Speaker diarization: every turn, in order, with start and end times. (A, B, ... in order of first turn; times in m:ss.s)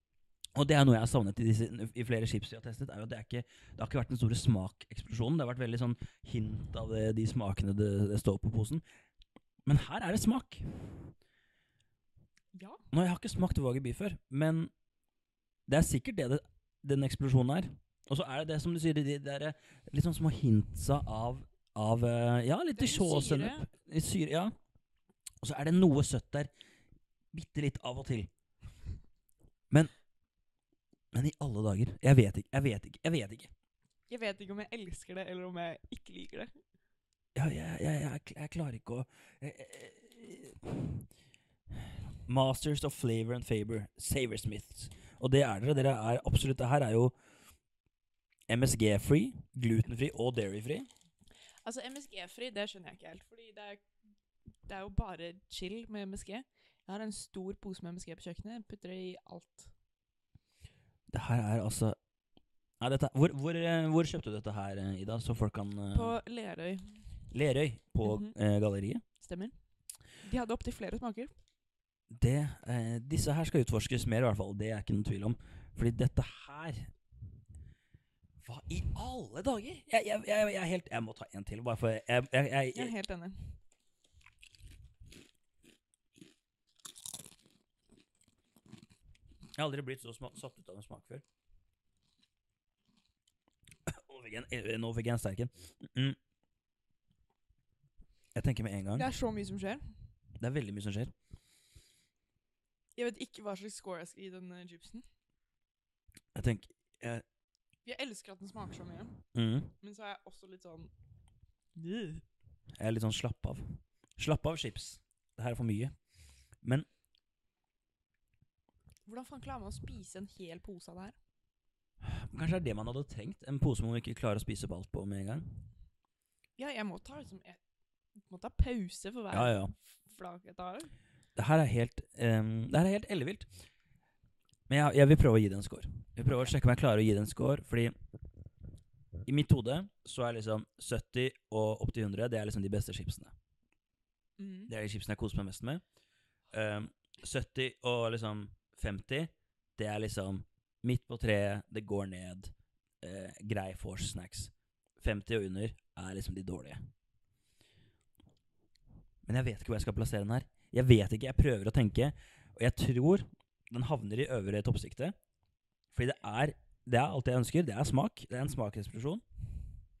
0:00.5-0:08.8 A
0:09.6-0:11.1 A
0:12.5-0:12.8 B
0:12.9-0:14.7 A
0:15.7-0:24.6 A
0:22.7-0:23.6 B
0:25.4-0:26.5 A
0:27.3-0:28.3 A
0:31.1-0:33.5 A
0:34.1-0:36.5 B
0:37.3-0:41.1 A
0:41.7-0:47.1 A
0:48.5-0:50.9 A
0:51.6-0:53.9 B
0:54.6-0:59.7 B
1:01.1-1:02.0 A
1:02.8-1:06.2 A
1:05.9-1:07.2 B
1:07.3-1:09.0 A
1:08.0-1:08.4 B
1:09.2-1:09.6 B
1:10.1-1:11.3 B
1:12.1-1:16.9 A
1:18.4-1:22.9 A
1:22.7-1:23.6 B
1:29.5-1:31.2 A
1:33.9-1:36.2 A
1:38.3-1:39.1 A
1:39.0-1:39.8 B
1:40.4-1:41.1 A
1:43.0-1:45.0 B
1:46.3-1:47.2 A
1:47.8-1:49.2 B
1:49.3-1:49.7 A
1:49.8-1:50.9 B
1:51.7-1:52.2 B
1:52.8-1:56.0 A
1:56.6-1:56.9 A
1:59.0-2:01.2 B
2:02.0-2:05.7 A
2:06.6-2:07.6 B
2:08.2-2:10.9 B
2:09.3-2:09.7 A
2:11.3-2:13.5 A
2:14.7-2:17.9 A
2:19.2-2:23.3 A
2:24.4-2:24.7 B
2:24.7-2:25.8 A
2:26.5-2:36.8 A
2:39.2-2:45.2 A
2:45.9-2:49.2 A